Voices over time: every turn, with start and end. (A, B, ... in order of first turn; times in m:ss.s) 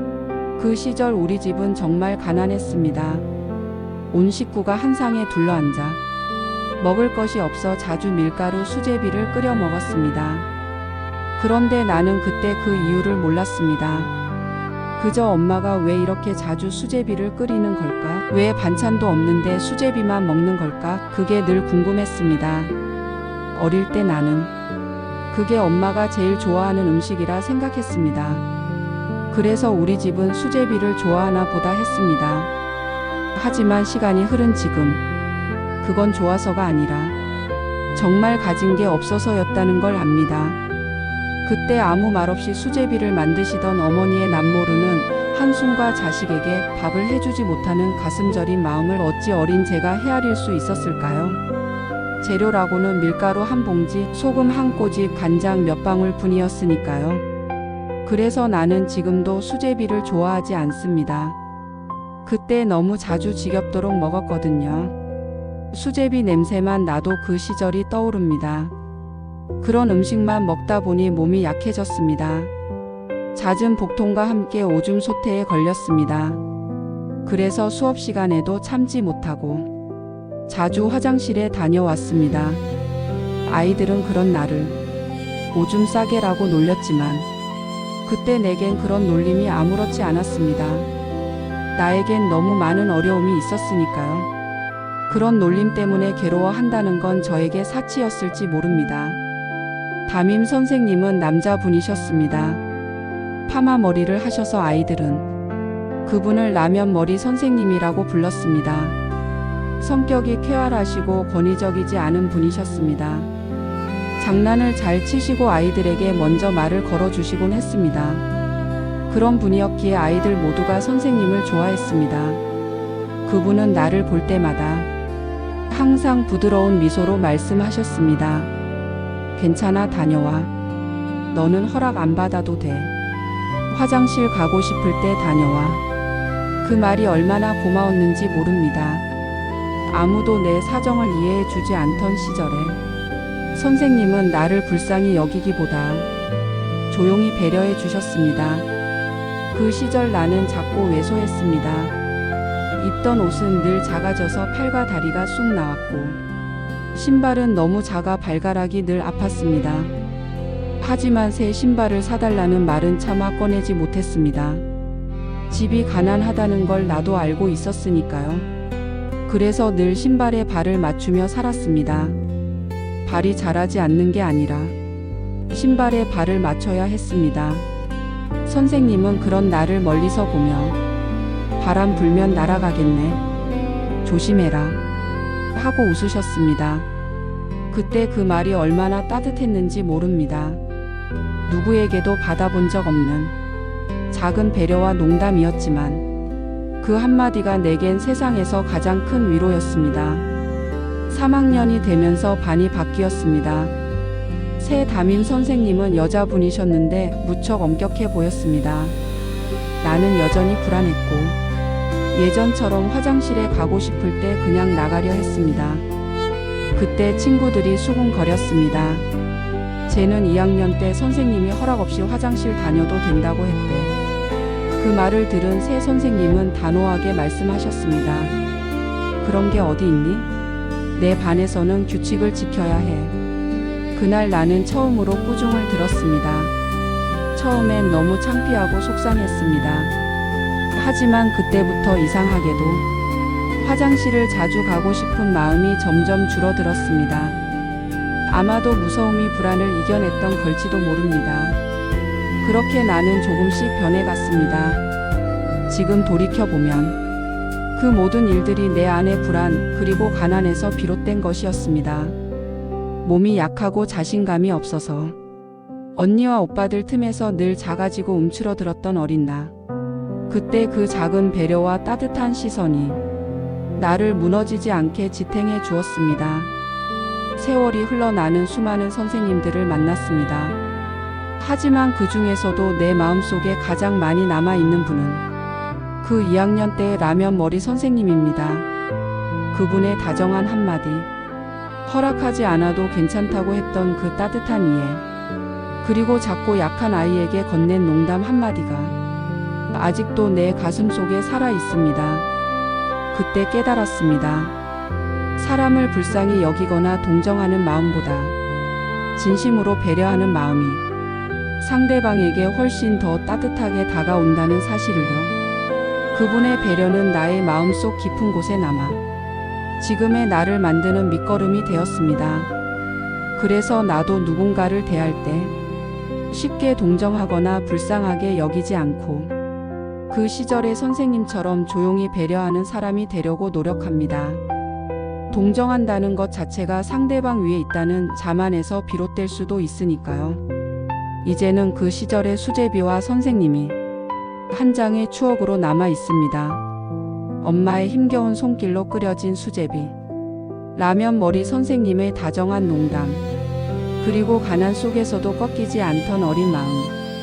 0:00.6-0:03.2 A
0:04.1-0:06.0 A
0:06.8-0:10.5 A
0:11.4-0:14.1 A
0:15.0-0:22.7 A
0:23.5-0:24.5 A
0:25.3-0:28.4 A
0:29.3-0:32.5 A
0:33.3-0:35.0 A
0:35.8-0:37.2 A
0:37.9-0:40.6 A
0:41.4-0:51.4 A
0:52.2-0:57.2 A
0:58.0-1:01.4 A
1:02.2-1:04.9 A
1:05.7-1:08.7 A
1:09.6-1:12.5 A
1:13.3-1:16.4 A
1:17.2-1:19.7 A
1:20.5-1:22.6 A
1:23.4-1:24.8 A
1:25.5-1:27.3 A
1:28.0-1:30.9 A
1:31.7-1:34.3 A
1:35.1-1:39.2 A
1:40.1-1:42.6 A
1:43.5-1:45.3 A
1:46.0-1:49.0 A
1:49.8-1:53.3 A
1:54.2-1:58.2 A
1:59.1-2:02.4 A
2:03.2-2:04.9 A
2:05.7-2:08.5 A
2:09.4-2:10.5 A
2:11.3-2:12.9 A
2:13.7-2:15.8 A
2:16.6-2:19.0 A
2:19.9-2:22.8 A
2:23.5-2:26.1 A
2:26.9-2:28.7 A
2:29.5-2:31.9 A
2:32.8-2:36.2 A
2:36.9-2:39.9 A
2:40.8-2:44.6 A
2:45.5-2:48.5 A
2:49.3-2:52.2 A
2:53.0-2:54.7 A
2:55.5-2:57.6 A
2:58.4-3:00.8 A
3:01.6-3:03.2 A
3:04.0-3:04.8 A
3:05.5-3:06.9 A
3:07.7-3:10.6 A
3:11.5-3:13.3 A
3:14.1-3:16.0 A
3:16.8-3:20.2 A
3:21.1-3:23.7 A
3:24.6-3:29.0 A
3:29.8-3:31.4 A
3:32.1-3:35.8 A
3:36.7-3:39.0 A
3:39.9-3:44.0 A
3:44.8-3:48.3 A
3:49.2-3:50.3 A
3:51.0-3:53.1 A
3:53.9-3:56.5 A
3:57.3-3:59.9 A
4:00.7-4:02.8 A
4:03.6-4:07.4 A
4:08.3-4:11.6 A
4:12.4-4:14.8 A
4:15.7-4:17.0 A
4:17.8-4:22.2 A
4:23.0-4:25.2 A
4:26.0-4:29.5 A
4:30.3-4:33.0 A
4:33.8-4:36.5 A
4:37.4-4:40.6 A
4:41.4-4:45.2 A
4:46.0-4:48.7 A
4:49.5-4:51.1 A
4:51.8-4:55.0 A
4:55.8-4:58.9 A
4:59.7-5:02.3 A
5:03.1-5:04.5 A
5:05.4-5:08.4 A
5:09.2-5:10.8 A
5:11.6-5:15.4 A
5:16.1-5:19.0 A
5:19.8-5:22.5 A
5:23.4-5:25.5 A
5:26.3-5:29.3 A
5:30.1-5:34.4 A
5:35.3-5:40.4 A
5:41.2-5:43.8 A
5:44.5-5:46.6 A
5:47.4-5:49.9 A
5:50.7-5:53.2 A
5:54.0-5:56.9 A